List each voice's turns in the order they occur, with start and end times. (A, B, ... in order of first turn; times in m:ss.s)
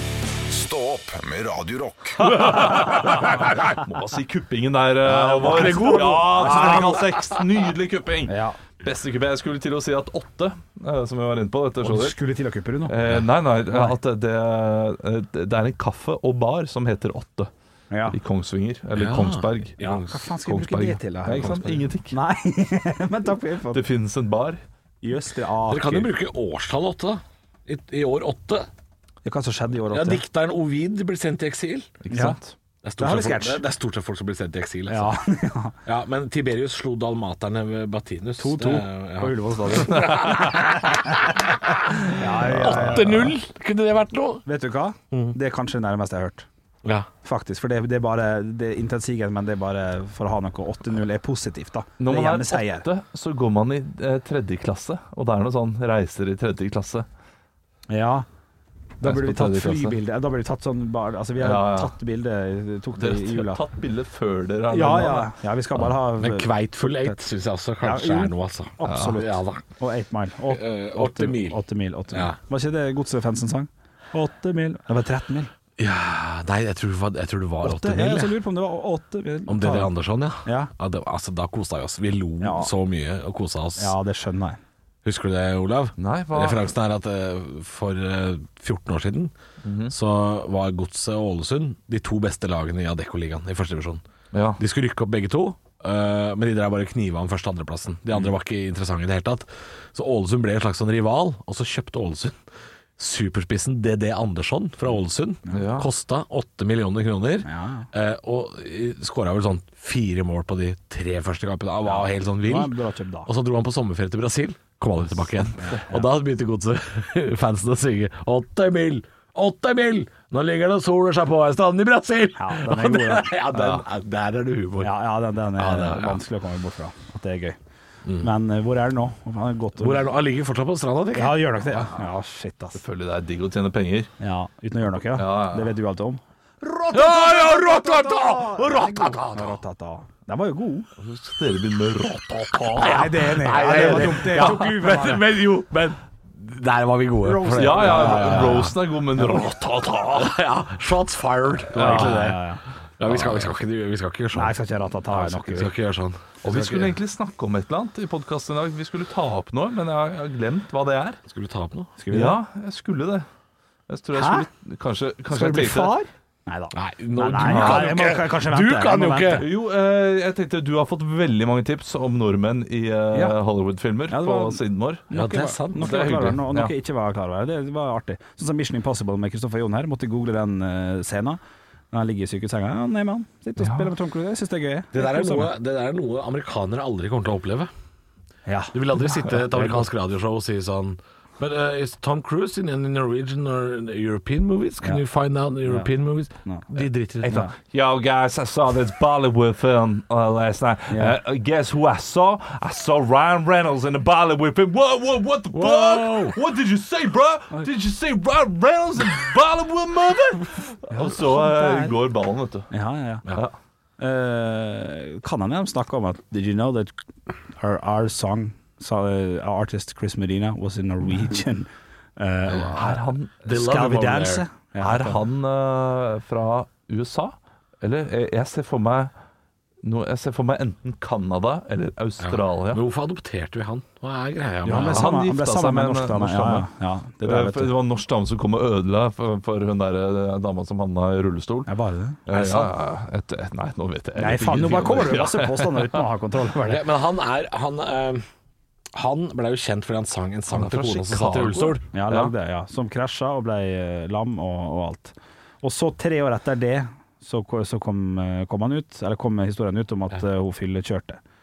0:00.5-0:02.4 A
0:02.2-0:12.1 B
0:05.0-0:07.0 C
0:05.4-0:07.4 D
0:08.3-0:08.6 C
0:11.8-0:13.2 C
0:12.9-0:17.5 B
0:13.7-0:13.9 C
0:17.9-0:18.2 C
0:18.1-0:19.8 B
0:18.9-0:20.2 D
0:19.8-0:23.8 C
0:20.4-0:22.1 B
0:21.3-0:21.8 D
0:23.7-0:24.6 B
0:25.0-0:26.1 C
0:25.6-0:28.7 D
0:29.2-0:30.2 C
0:29.9-0:31.9 D
0:32.0-0:32.5 B
0:32.1-0:32.4 C
0:32.8-0:35.2 D
0:33.0-0:33.6 C
0:34.9-0:35.8 C
0:35.8-0:40.8 D
0:38.4-0:41.0 C
0:39.9-0:40.7 B
0:41.7-0:44.4 D
0:42.1-0:43.3 C
0:42.5-0:43.2 B
0:44.4-0:46.5 C
0:45.1-0:45.4 D
0:46.8-0:47.1 D
0:47.2-0:52.8 C
0:52.0-0:57.1 B
0:57.9-0:58.2 C
0:59.0-1:03.6 C
0:59.0-0:59.9 B
1:01.4-1:01.9 B
1:03.0-1:05.3 B
1:04.7-1:07.2 C
1:05.8-1:09.6 D
1:07.8-1:15.5 C
1:08.9-1:09.2 B
1:10.5-1:12.4 D
1:15.8-1:18.4 D
1:17.6-1:20.7 C
1:19.5-1:23.9 D
1:22.4-1:22.7 C
1:23.8-1:24.6 C
1:25.0-1:29.3 D
1:26.0-1:26.7 B
1:29.6-1:29.9 B
1:29.9-1:34.0 D
1:34.3-1:34.6 B
1:34.6-1:42.4 D
1:43.0-2:04.9 D
1:45.5-1:45.9 B
1:47.4-1:47.9 C
1:51.8-1:53.3 C
1:55.6-1:56.1 C
2:02.4-2:03.4 C
2:03.5-2:03.8 B
2:04.8-2:07.6 C
2:05.6-2:06.2 D
2:08.0-2:08.3 D
2:08.2-2:10.1 C
2:09.8-2:12.0 D
2:11.1-2:12.8 C
2:12.8-2:14.1 B
2:14.2-2:20.9 C
2:15.1-2:15.7 B
2:16.9-2:19.6 D
2:21.0-2:24.7 B
2:22.8-2:25.3 C
2:22.8-2:29.4 D
2:27.2-2:28.7 C
2:27.5-2:30.3 B
2:30.1-2:32.4 D
2:31.7-2:32.4 B
2:31.7-2:32.6 C
2:33.0-2:34.6 D
2:33.0-2:33.5 B
2:34.3-2:35.7 C
2:35.1-2:36.8 D
2:36.4-2:41.2 B
2:36.4-2:36.8 C
2:41.3-2:41.9 D
2:42.0-2:42.4 C
2:42.1-2:43.3 B
2:43.9-2:46.0 B
2:44.1-2:44.4 C
2:45.3-2:49.5 C
2:46.7-2:49.4 D
2:47.4-2:48.0 B
2:49.3-2:55.0 B
2:53.1-2:53.4 C
2:54.1-3:01.4 C
2:55.1-2:56.4 D
2:55.8-2:56.7 B
3:01.9-3:05.5 C
3:03.6-3:03.9 B
3:04.9-3:07.7 D
3:08.4-3:08.8 C
3:08.7-3:17.4 D
3:09.3-3:09.8 C
3:16.4-3:16.7 C
3:17.2-3:32.7 B
3:20.9-3:21.2 C
3:25.5-3:26.4 D
3:30.9-3:32.0 C
3:32.7-3:33.2 C
3:34.0-3:36.9 C
3:37.5-3:45.2 C
3:42.5-3:43.8 B
3:43.4-3:44.4 D
3:44.8-3:49.1 B
3:49.8-3:52.8 B
3:52.2-3:55.1 D
3:54.6-3:57.7 C
3:54.8-3:56.6 B
3:57.2-4:01.7 B
4:01.7-4:02.7 C
4:02.3-4:06.0 B
4:04.2-4:06.9 C
4:06.6-4:08.2 D
4:08.9-4:11.8 D
4:10.5-4:12.3 B
4:11.9-4:21.2 C